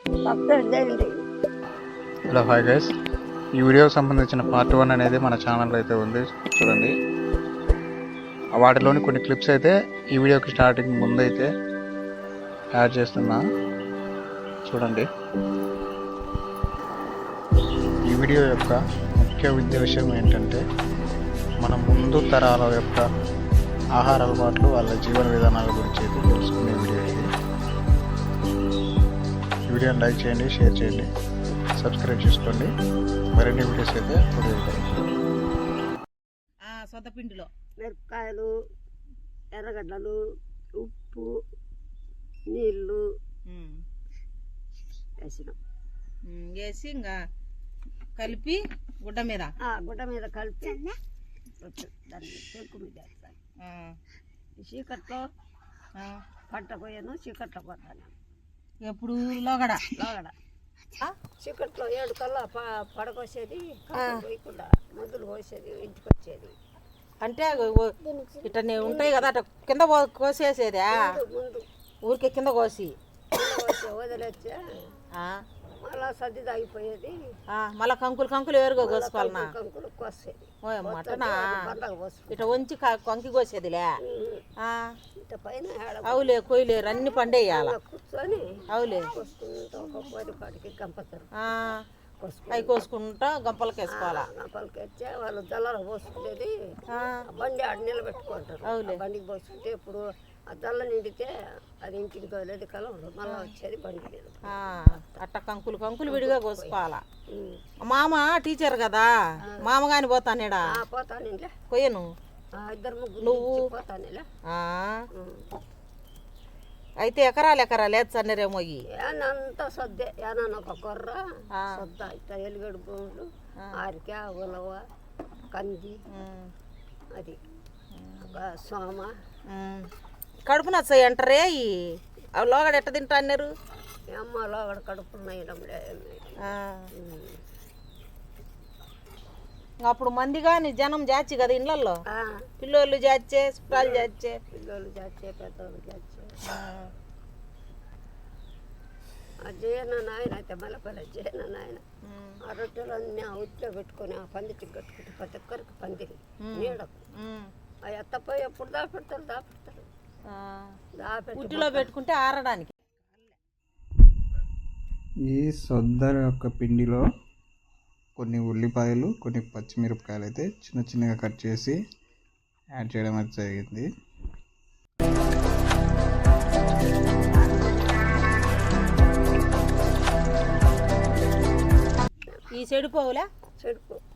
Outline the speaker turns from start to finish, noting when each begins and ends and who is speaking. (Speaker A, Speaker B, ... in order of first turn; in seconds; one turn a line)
Speaker A: 0.2-1.2
Speaker B: 2.3-2.9
Speaker B: 3.6-6.9
Speaker B: 8.6-11.5
Speaker B: 12.8-13.4
Speaker B: 14.7-15.1
Speaker B: 18.1-20.6
Speaker B: 21.6-23.1
Speaker B: 24.0-27.3
Speaker B: 29.7-31.1
Speaker B: 31.8-32.7
Speaker B: 33.4-35.0
Speaker C: 36.6-37.5
Speaker A: 37.8-38.5
Speaker A: 39.5-40.2
Speaker A: 40.8-41.3
Speaker A: 42.5-43.0
Speaker C: 43.5-43.8
Speaker A: 45.2-45.6
Speaker C: 46.3-47.2
Speaker C: 48.2-49.5
Speaker A: 49.6-50.9
Speaker A: 51.6-53.4
Speaker C: 53.6-54.0
Speaker A: 54.6-55.3
Speaker C: 56.0-56.2
Speaker A: 56.5-58.1
Speaker C: 58.9-59.9
Speaker A: 59.9-60.3
Speaker A: 61.4-66.5
Speaker C: 67.2-71.0
Speaker A: 68.8-69.3
Speaker A: 70.9-71.7
Speaker C: 72.0-73.0
Speaker A: 73.3-74.6
Speaker C: 75.2-75.4
Speaker A: 75.8-77.2
Speaker C: 77.5-79.5
Speaker A: 78.8-82.6
Speaker C: 80.7-81.6
Speaker C: 82.3-83.9
Speaker A: 84.0-84.5
Speaker C: 84.6-85.0
Speaker A: 85.2-86.3
Speaker C: 86.1-87.8
Speaker A: 87.0-91.3
Speaker C: 88.7-89.1
Speaker C: 91.4-91.8
Speaker A: 92.2-92.8
Speaker C: 92.5-94.3
Speaker A: 93.9-96.5
Speaker C: 96.9-97.2
Speaker A: 97.3-105.1
Speaker C: 98.7-99.0
Speaker C: 103.3-103.5
Speaker C: 104.5-107.0
Speaker A: 106.1-106.8
Speaker A: 107.4-107.6
Speaker C: 107.8-109.1
Speaker C: 109.6-110.8
Speaker A: 110.7-111.5
Speaker C: 111.7-112.1
Speaker A: 112.6-114.3
Speaker C: 113.2-113.6
Speaker C: 114.5-115.0
Speaker A: 115.1-115.5
Speaker C: 117.0-118.8
Speaker A: 118.9-124.8
Speaker A: 125.5-126.0
Speaker C: 126.1-126.5
Speaker C: 127.9-128.3
Speaker A: 128.3-129.1
Speaker C: 129.5-129.9
Speaker C: 130.5-133.5
Speaker A: 134.1-137.4
Speaker C: 136.5-136.9
Speaker C: 139.8-142.0
Speaker A: 142.1-142.5
Speaker C: 142.6-144.4
Speaker A: 143.7-146.4
Speaker C: 146.4-146.9
Speaker A: 149.4-151.8
Speaker C: 152.0-152.4
Speaker A: 152.4-157.0
Speaker C: 156.5-157.5
Speaker A: 157.8-159.9
Speaker C: 160.3-160.8
Speaker A: 161.0-161.9
Speaker C: 161.4-163.3
Speaker B: 165.3-167.1
Speaker B: 168.2-171.8
Speaker B: 172.8-173.9
Speaker C: 182.5-183.3
Speaker A: 183.6-184.0